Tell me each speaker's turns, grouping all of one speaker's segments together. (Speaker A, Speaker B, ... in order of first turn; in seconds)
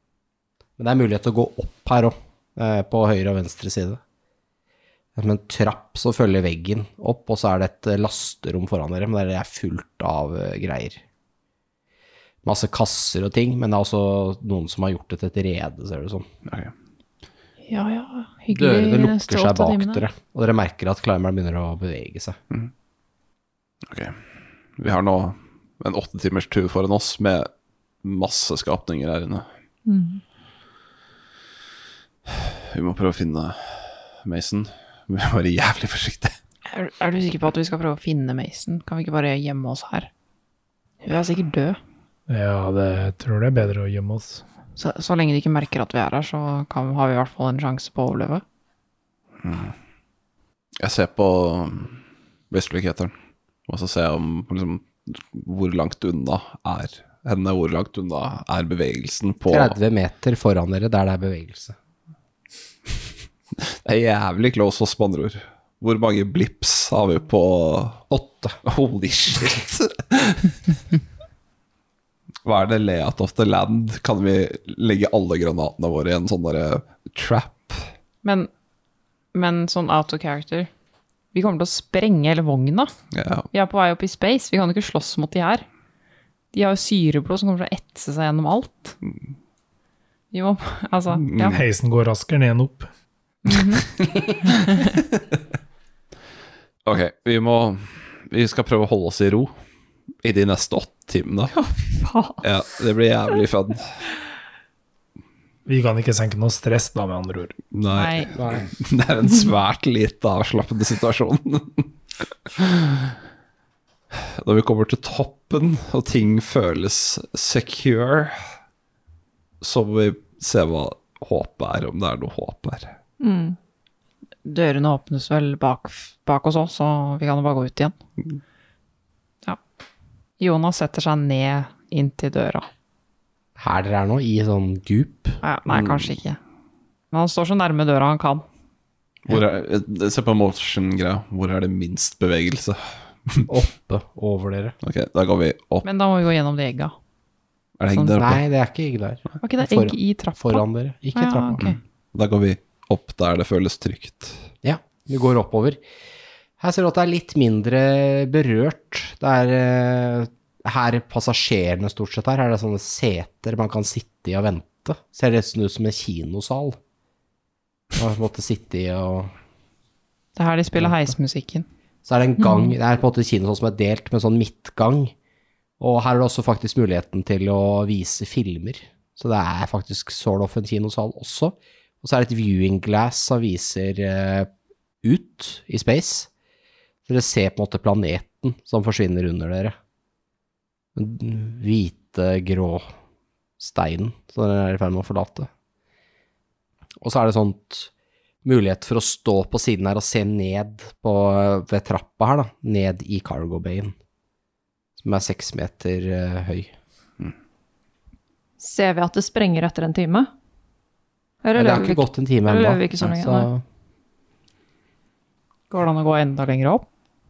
Speaker A: 0.8-4.0, 5.2-11.0, 12.4-16.3, 18.5-22.4, 59.5-61.8, 68.1-68.6, 108.4-108.6, 133.6-135.4, 143.5-144.8, 148.1-151.7, 154.6-155.8, 156.6-166.8, 167.9-169.3, 170.8-171.1, 172.0-175.1, 175.8-184.5, 185.0-186.3, 187.1-189.7, 190.9-192.9, 193.6-195.5, 197.0-197.9, 198.4-203.9, 205.0-206.7, 211.6-213.6
Speaker B: 16.4-16.7, 23.9-24.2, 24.8-27.5, 28.0-29.4, 32.2-36.4, 49.4-49.7, 50.8-53.1, 53.7-59.8, 63.6-68.0, 68.6-70.7, 72.4-77.9, 83.1-83.5, 91.2-91.6, 96.8-99.5, 100.2-101.5, 102.4-104.0, 107.7-113.2, 114.1-118.4, 119.6-122.9, 135.7-136.1, 139.2-143.4, 144.8-145.8, 147.8-148.4, 151.6-154.4
Speaker C: 17.7-20.0, 36.7-40.1, 41.0-41.8, 44.8-48.4, 78.2-78.5, 79.3-80.7, 81.3-82.9, 83.5-85.7, 86.5-88.9, 90.3-91.6, 93.4-93.9, 107.9-108.4, 124.4-127.9, 130.4-132.7, 135.4-136.4, 137.1-138.4, 145.8-146.9, 147.9-148.2, 149.4-150.6, 151.1-151.8, 170.3-171.7, 215.7-216.8
Speaker D: 29.9-30.2, 101.5-102.4, 123.2-123.6, 172.4-172.7, 208.6-210.3, 211.4-213.5
Speaker E: 42.3-44.4, 91.5-92.9, 105.7-107.6